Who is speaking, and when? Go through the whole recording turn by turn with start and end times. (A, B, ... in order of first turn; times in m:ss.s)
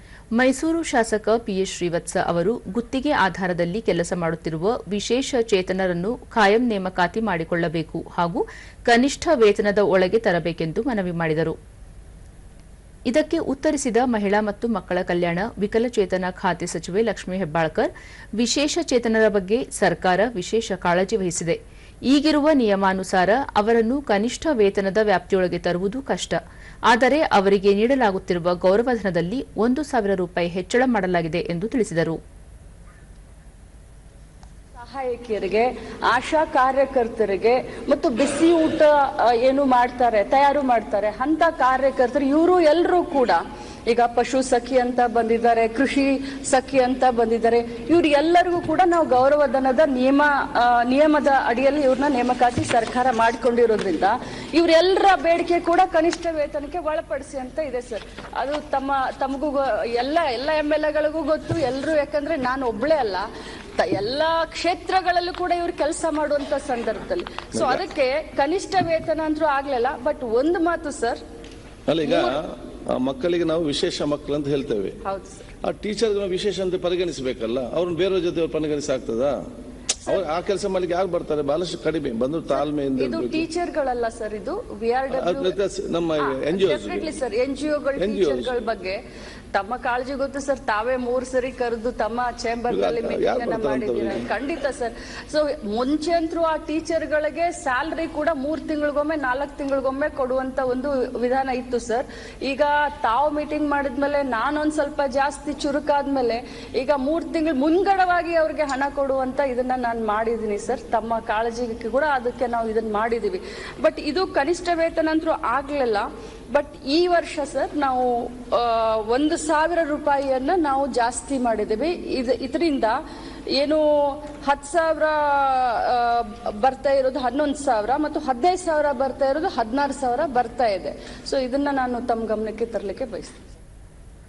0:00.4-0:11.6 A
0:13.1-0:21.6 A
0:22.1-0:32.2 A
0:34.8-1:11.2 B
1:07.5-1:07.8 C
1:11.9-1:15.0 C
1:12.0-1:12.4 B
1:15.0-1:15.4 B
1:15.6-1:19.4 C
1:20.1-1:23.5 C
1:22.6-1:25.6 B
1:25.1-1:27.1 C
1:26.2-1:29.0 B
1:28.0-1:28.6 C
1:29.5-2:03.0 B
1:32.7-1:34.3 C
2:03.6-2:13.4 B